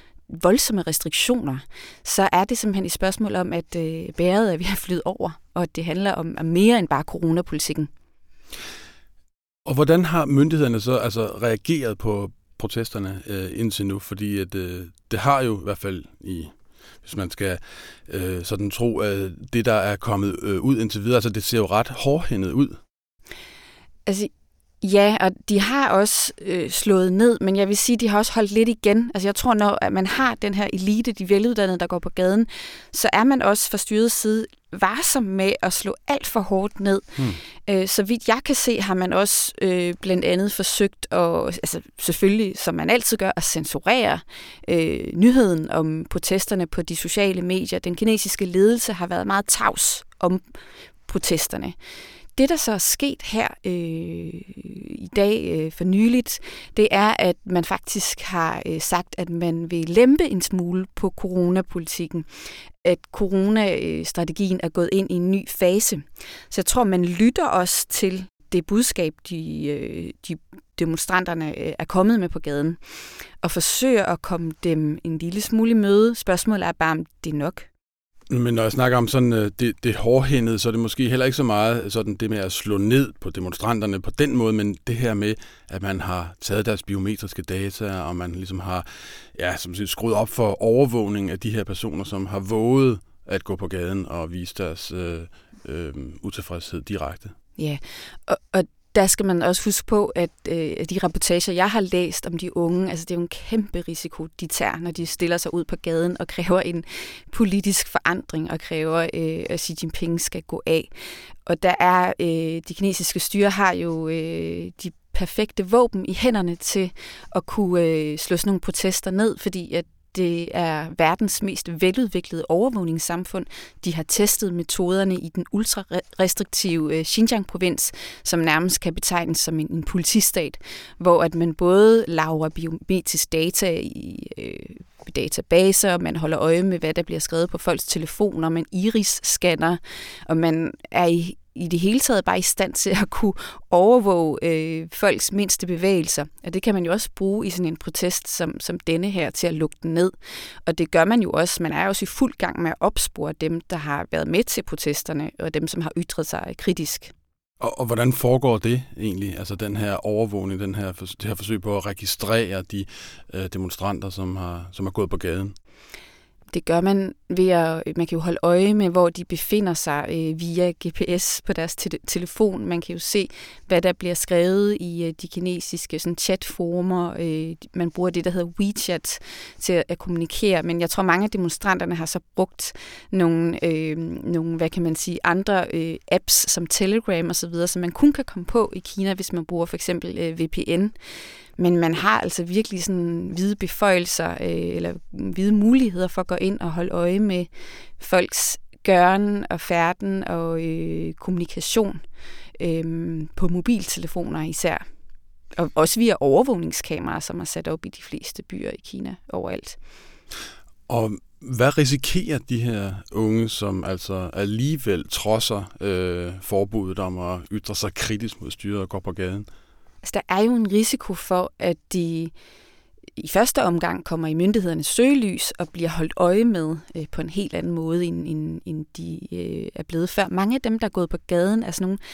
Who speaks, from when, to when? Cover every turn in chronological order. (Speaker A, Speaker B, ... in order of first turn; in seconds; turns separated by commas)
Speaker A: 0.3-7.9, Speaker B: 9.7-22.8, Speaker A: 24.1-24.3, Speaker A: 24.8-50.4, Speaker A: 51.1-51.8, Speaker A: 52.4-62.3, Speaker A: 62.8-72.8, Speaker A: 73.4-77.7, Speaker B: 78.3-97.3, Speaker A: 97.6-110.9, Speaker A: 111.5-157.1, Speaker B: 157.6-165.5, Speaker A: 166.5-190.9, Speaker A: 191.6-202.0, Speaker A: 202.6-204.8, Speaker A: 205.6-209.8, Speaker B: 210.9-219.5, Speaker A: 220.0-222.3, Speaker A: 223.2-232.0